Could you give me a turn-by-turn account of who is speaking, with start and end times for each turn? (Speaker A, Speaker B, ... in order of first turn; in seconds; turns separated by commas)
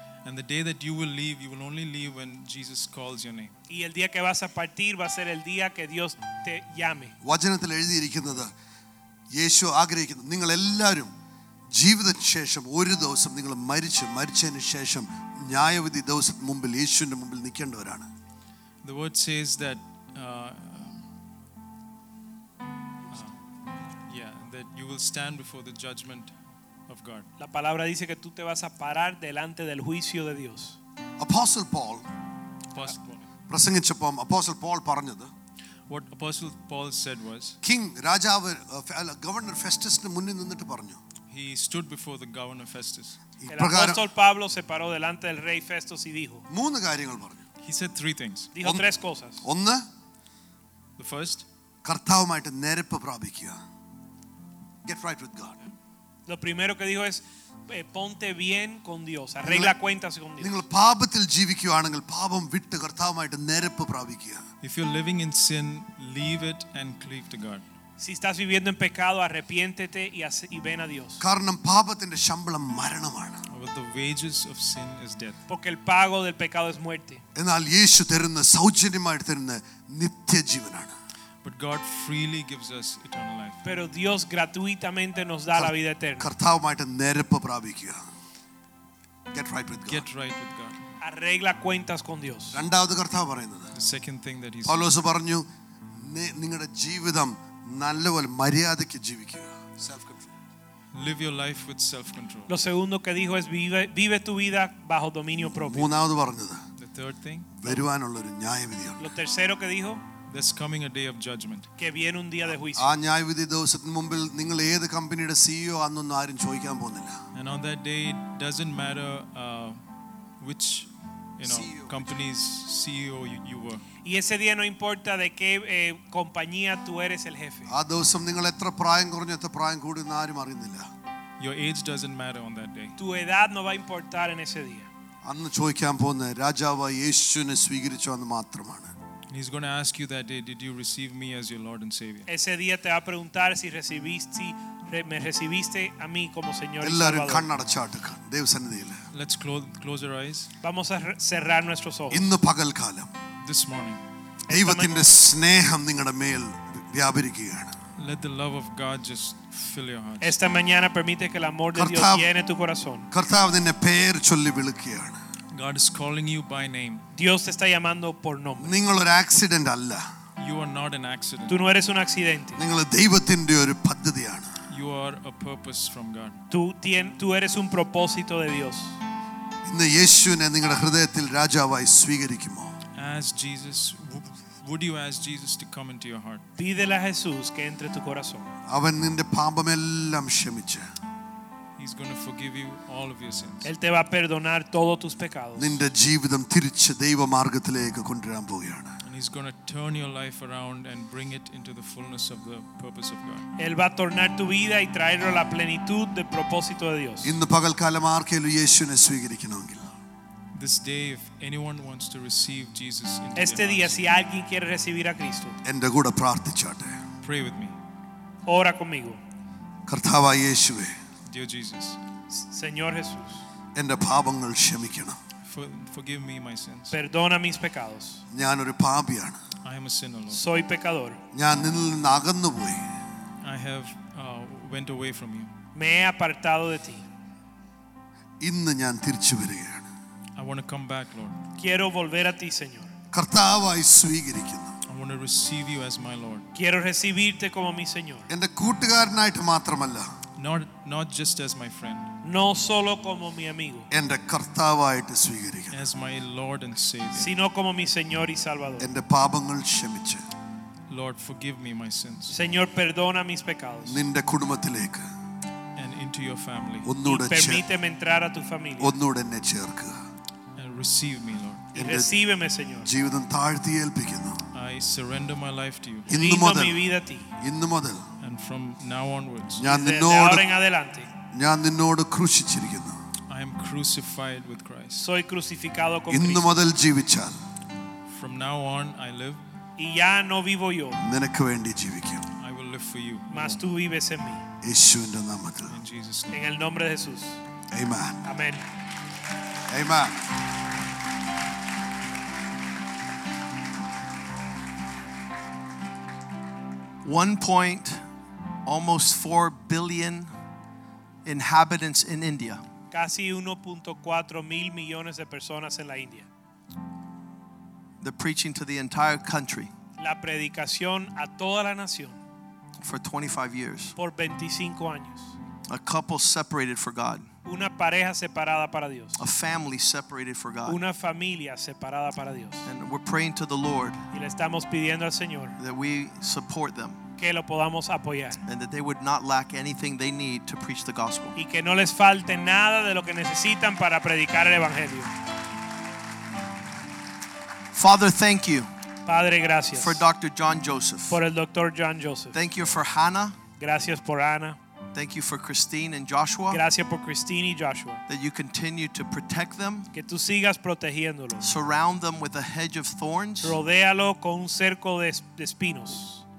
Speaker A: 0.2-3.5, Speaker B: 3.7-7.1, Speaker C: 7.2-8.5, Speaker C: 9.3-11.1, Speaker C: 11.7-18.1, Speaker A: 18.8-21.1, Speaker A: 23.1-23.3, Speaker A: 24.1-26.3, Speaker A: 26.9-27.3, Speaker B: 27.4-30.8, Speaker C: 31.2-32.0, Speaker A: 32.7-33.3, Speaker C: 33.5-35.3, Speaker A: 35.9-37.6, Speaker C: 37.6-41.0, Speaker A: 41.3-43.2, Speaker C: 43.4-44.0, Speaker B: 43.5-46.4, Speaker C: 46.5-47.4, Speaker A: 47.6-48.5, Speaker B: 48.5-49.4, Speaker C: 49.4-49.9, Speaker A: 51.0-51.5, Speaker C: 51.8-53.6, Speaker C: 54.8-55.6, Speaker B: 56.3-60.6, Speaker C: 59.4-59.8, Speaker C: 60.4-64.4, Speaker A: 64.6-67.6, Speaker B: 68.0-71.2, Speaker C: 71.2-73.4, Speaker A: 73.5-75.4, Speaker B: 75.5-77.2, Speaker C: 77.3-80.9, Speaker A: 81.4-83.7, Speaker B: 83.6-86.3, Speaker C: 85.5-88.0, Speaker C: 89.3-90.0, Speaker A: 89.9-90.8, Speaker B: 91.0-92.6, Speaker C: 92.5-93.7, Speaker A: 93.7-94.9, Speaker C: 94.7-100.3, Speaker A: 100.9-102.5, Speaker B: 102.5-105.9, Speaker C: 105.5-106.7, Speaker A: 106.8-107.5, Speaker C: 107.5-109.1, Speaker B: 109.0-110.0, Speaker A: 110.3-111.7, Speaker B: 111.8-112.9, Speaker C: 112.6-117.2, Speaker A: 117.3-119.8, Speaker A: 120.4-123.8, Speaker C: 121.4-122.2, Speaker B: 124.0-127.7, Speaker C: 127.7-130.9, Speaker A: 131.4-132.9, Speaker B: 133.0-134.9, Speaker C: 135.2-138.9, Speaker A: 139.3-142.3, Speaker B: 142.3-147.5, Speaker C: 146.8-149.0, Speaker A: 149.1-150.5, Speaker B: 150.6-152.3, Speaker C: 152.1-153.1, Speaker A: 153.4-154.0, Speaker B: 154.5-154.9, Speaker C: 154.5-157.7, Speaker A: 158.0-160.4, Speaker B: 160.2-163.1, Speaker C: 161.7-162.3, Speaker C: 163.1-165.2, Speaker A: 165.5-167.0, Speaker B: 167.1-168.8, Speaker C: 168.6-170.1, Speaker A: 170.4-171.6, Speaker B: 171.5-172.6, Speaker C: 172.6-174.5, Speaker A: 174.7-176.4, Speaker B: 176.5-178.9, Speaker C: 179.6-182.8, Speaker A: 182.9-186.4, Speaker B: 186.6-188.5, Speaker C: 188.7-190.9, Speaker A: 191.8-193.7, Speaker B: 193.6-195.8, Speaker C: 195.6-199.0, Speaker A: 199.0-203.4, Speaker B: 203.6-207.3, Speaker C: 207.2-209.9, Speaker A: 210.5-214.1, Speaker B: 213.3-215.6, Speaker C: 215.6-217.0, Speaker A: 217.2-217.8, Speaker B: 218.5-219.2, Speaker C: 219.9-221.0, Speaker A: 221.2-222.0, Speaker B: 222.3-223.4, Speaker C: 223.7-225.2, Speaker A: 225.4-226.9, Speaker B: 226.9-228.2, Speaker C: 228.3-229.4, Speaker A: 229.6-230.4, Speaker B: 230.3-231.2, Speaker C: 231.3-233.0, Speaker A: 233.4-235.5, Speaker B: 235.7-237.0, Speaker C: 238.4-239.9, Speaker A: 240.3-241.4, Speaker B: 241.6-242.9, Speaker C: 243.1-244.8, Speaker A: 244.9-246.5, Speaker B: 246.5-248.3, Speaker C: 248.3-250.1, Speaker A: 250.4-252.1, Speaker B: 252.2-253.9, Speaker C: 253.9-255.8, Speaker A: 255.7-257.3, Speaker B: 257.1-258.9, Speaker C: 258.8-260.2, Speaker A: 260.9-262.3, Speaker B: 262.3-264.0, Speaker C: 263.8-265.1, Speaker A: 265.8-266.9, Speaker C: 266.8-267.7, Speaker B: 267.0-268.9, Speaker C: 268.8-270.0, Speaker A: 270.6-271.7, Speaker B: 271.7-272.9, Speaker C: 271.8-272.1, Speaker C: 272.8-274.4, Speaker A: 274.5-276.1, Speaker C: 276.1-276.8, Speaker B: 276.1-277.3, Speaker C: 277.4-278.1, Speaker A: 278.2-279.6, Speaker C: 279.6-280.5, Speaker B: 279.6-281.1, Speaker C: 281.3-283.0, Speaker A: 283.3-285.1, Speaker B: 285.0-286.5, Speaker C: 286.1-287.4, Speaker A: 288.1-289.4, Speaker B: 289.8-291.0, Speaker C: 291.0-292.2, Speaker A: 292.4-293.7, Speaker B: 293.3-294.4, Speaker C: 294.6-295.7, Speaker A: 295.7-296.4, Speaker B: 296.3-297.4, Speaker C: 297.7-298.2, Speaker B: 298.2-298.6, Speaker C: 299.7-300.4, Speaker D: 307.0-308.0, Speaker D: 308.6-310.3, Speaker D: 311.2-312.6, Speaker B: 312.9-316.3, Speaker D: 318.0-319.7, Speaker B: 320.0-322.2, Speaker D: 322.8-323.9, Speaker B: 323.9-325.3, Speaker D: 325.7-327.3, Speaker B: 327.4-329.2, Speaker D: 329.2-330.8, Speaker B: 330.6-332.7, Speaker D: 332.6-334.0, Speaker B: 334.1-335.6, Speaker D: 335.6-337.0, Speaker B: 337.2-338.4, Speaker D: 338.4-341.3, Speaker B: 341.4-345.1, Speaker D: 347.7-348.7, Speaker B: 349.1-350.0, Speaker D: 349.8-351.2, Speaker B: 351.1-352.4, Speaker D: 352.3-353.4, Speaker B: 353.6-354.6, Speaker D: 354.9-356.6, Speaker B: 356.5-358.0, Speaker D: 358.1-359.9, Speaker B: 359.9-361.5, Speaker D: 361.4-363.6, Speaker B: 363.4-366.2